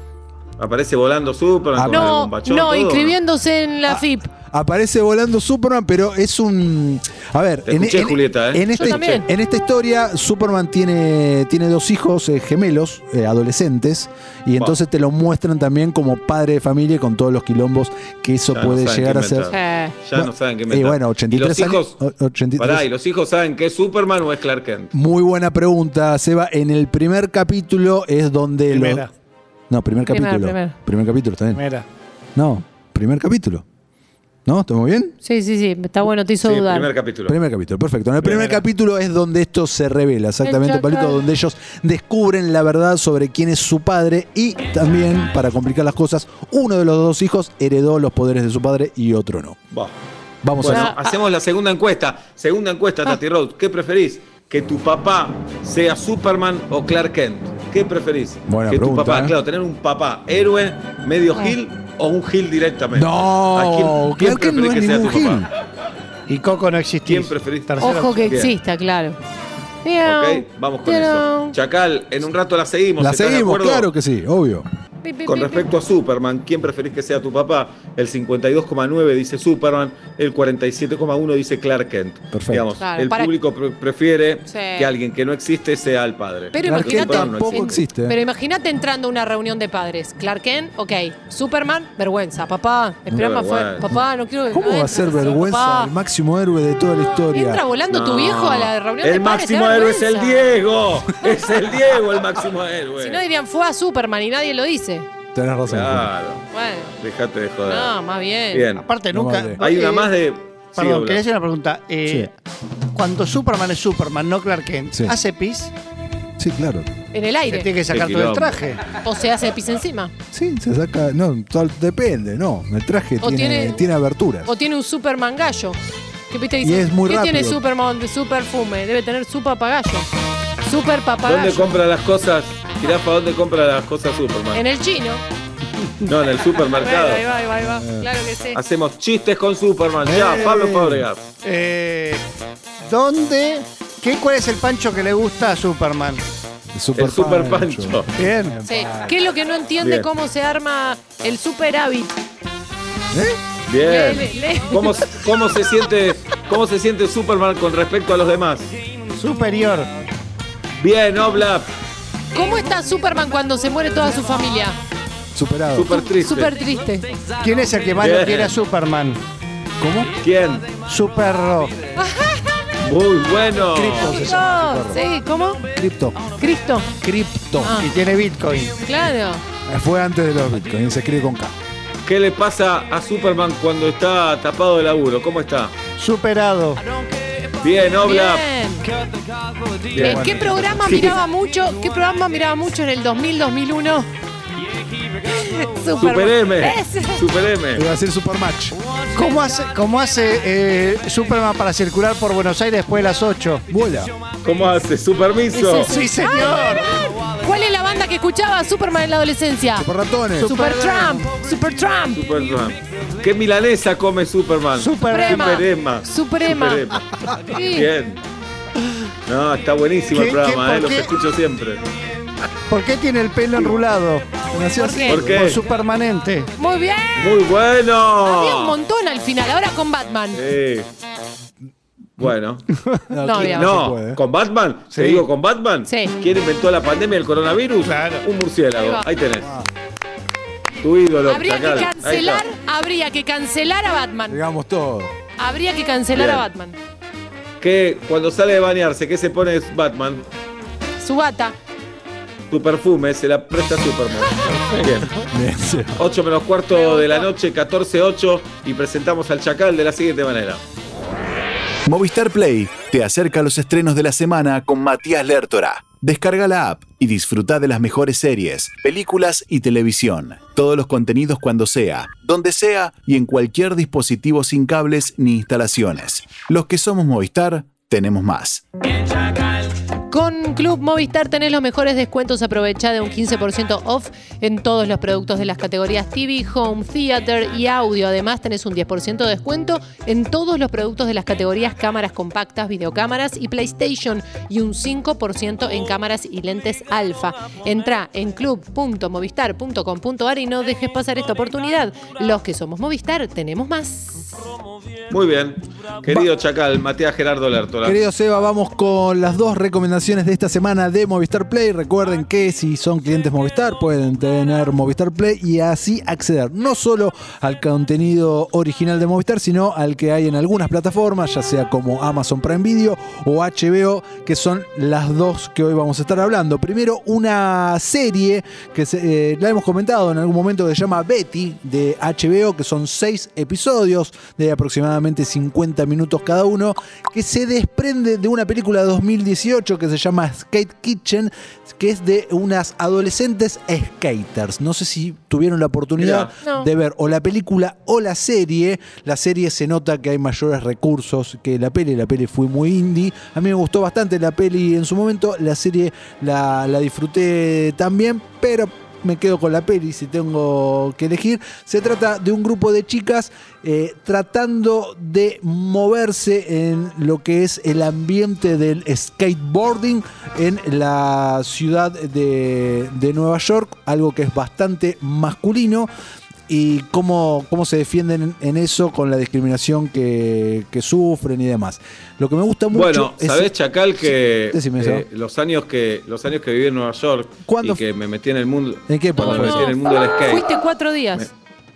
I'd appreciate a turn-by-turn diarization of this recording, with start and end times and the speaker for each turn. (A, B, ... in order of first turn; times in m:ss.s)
0:00.6-0:03.2 A
0:01.8-0:02.2 B
0:01.9-0:04.3 C
0:03.9-0:19.5 B
0:07.7-0:09.2 A
0:08.8-0:09.3 C
0:18.5-0:22.0 A
0:19.5-0:19.9 C
0:20.2-0:22.9 B
0:22.6-0:24.9 A
0:24.9-0:29.0 B
0:28.7-0:29.1 D
0:29.7-0:31.6 B
0:30.1-0:30.8 C
0:31.5-0:31.9 D
0:32.4-0:33.6 B
0:34.5-0:35.2 B
0:35.2-0:36.9 C
0:36.4-0:37.4 A
0:37.3-0:49.6 B
0:38.2-0:38.5 A
0:38.3-0:38.6 D
0:40.4-0:41.2 C
0:50.4-0:50.9 B
0:50.6-1:05.5 A
0:50.6-0:51.0 C
0:58.5-0:59.4 B
1:02.9-1:05.5 B
1:06.3-1:08.3 D
1:07.0-1:07.7 A
1:07.8-1:09.2 C
1:08.3-1:08.5 A
1:09.8-1:11.5 C
1:10.0-1:13.9 A
1:13.0-1:14.7 B
1:15.0-1:15.6 C
1:15.3-1:27.8 A
1:22.3-1:22.7 B
1:22.8-1:23.3 C
1:24.5-1:24.9 C
1:26.5-1:35.9 C
1:26.6-1:28.2 B
1:33.2-1:33.9 A
1:33.9-1:37.6 B
1:37.3-1:40.6 C
1:37.9-1:43.2 A
1:43.0-1:45.1 C
1:45.3-1:46.1 B
1:45.7-1:46.4 A
1:46.5-1:46.9 C
1:47.0-1:48.0 A
1:47.7-1:48.7 C
1:48.5-1:48.9 A
1:48.8-1:50.1 D
1:49.1-1:49.6 B
1:49.6-1:51.2 A
1:50.8-1:52.3 D
1:52.9-1:55.7 D
1:56.4-1:56.9 B
1:57.1-1:57.7 C
1:57.5-1:58.8 D
1:57.9-1:58.6 A
1:59.0-2:00.1 C
2:00.3-2:04.5 B
2:03.2-2:03.8 C
2:04.4-2:05.8 C
2:06.3-2:10.1 C
2:06.6-2:07.6 B
2:10.6-2:11.7 C
2:11.2-2:14.6 A
2:14.5-2:15.2 C
2:16.0-2:17.2 A
2:16.8-2:18.6 C
2:17.6-2:18.1 B
2:18.6-2:21.2 A
2:20.0-2:21.0 B
2:21.4-2:22.2 D
2:22.8-2:26.3 D
2:26.7-2:29.2 B
2:27.0-2:28.1 A
2:28.2-2:28.6 D
2:28.6-2:32.2 C
2:29.8-2:30.1 A
2:33.1-2:33.4 B
2:33.7-2:38.7 A
2:33.8-2:35.0 C
2:39.2-2:39.9 D
2:40.8-2:41.7 A
2:42.3-2:44.8 C
2:45.3-2:45.9 B
2:45.7-2:46.5 A
2:45.9-2:47.1 C
2:47.4-2:49.2 D
2:48.0-2:48.6 A
2:49.8-2:50.1 B
2:50.2-2:50.7 A
2:50.8-2:51.7 D
2:52.0-2:52.5 C
2:52.8-2:54.2 A
2:53.7-2:55.0 B
2:54.0-2:55.6 C
2:55.7-2:56.2 B
2:56.4-2:56.9 C
2:57.0-2:57.8 B
2:57.6-2:57.9 C
2:57.8-2:58.8 D
2:58.8-2:59.4 C
2:59.7-3:01.5 B
3:02.0-3:05.7 A
3:06.0-3:06.8 D
3:07.6-3:08.5 A
3:08.0-3:08.9 C
3:09.9-3:10.3 A
3:09.9-3:11.1 B
3:10.0-3:14.1 C
3:10.8-3:11.2 A
3:15.3-3:17.2 C
3:16.0-3:17.9 A
3:17.7-3:18.8 B
3:19.1-3:23.6 D
3:23.7-3:24.1 B
3:24.4-3:25.9 A
3:25.5-3:29.9 C
3:25.9-3:26.9 D
3:29.8-3:30.6 B
3:30.4-3:31.3 D
3:30.4-3:32.2 C
3:32.1-3:38.2 A
3:34.8-3:35.6 D
3:35.1-3:36.9 C
3:37.5-3:37.9 C
3:39.3-3:41.8 A
3:40.1-3:41.1 D
3:42.7-3:44.3 D
3:44.5-3:45.6 B
3:44.8-3:45.2 C
3:45.1-3:45.6 A
3:45.2-3:46.5 D
3:46.6-3:47.4 C
3:47.2-3:48.8 A
3:48.2-3:50.4 C
3:50.3-3:50.9 A
3:52.2-3:52.7 A
3:53.1-3:54.2 B
3:53.2-3:53.8 C
3:53.4-3:59.5 A
3:55.9-3:56.1 C
3:57.8-3:58.2 D
3:58.8-3:59.0 C
3:59.4-3:59.7 B
4:00.8-4:02.4 A
4:01.3-4:04.4 C
4:04.3-4:05.1 B
4:05.4-4:06.8 C
4:06.2-4:06.4 A
4:07.6-4:10.3 A
4:11.0-4:11.6 C
4:12.5-4:15.2 A
4:15.3-4:16.0 B
4:16.0-4:20.6 A
4:16.7-4:17.3 C
4:21.9-4:38.6 E
4:40.1-5:04.4 C
5:05.1-5:08.0 A
5:07.8-6:15.9 B
5:46.0-5:46.3 A
5:46.4-5:46.7 C
6:16.5-6:25.1 B
6:22.7-6:30.5 A
6:27.5-6:27.8 B
6:28.9-6:29.7 B
6:29.2-6:31.3 C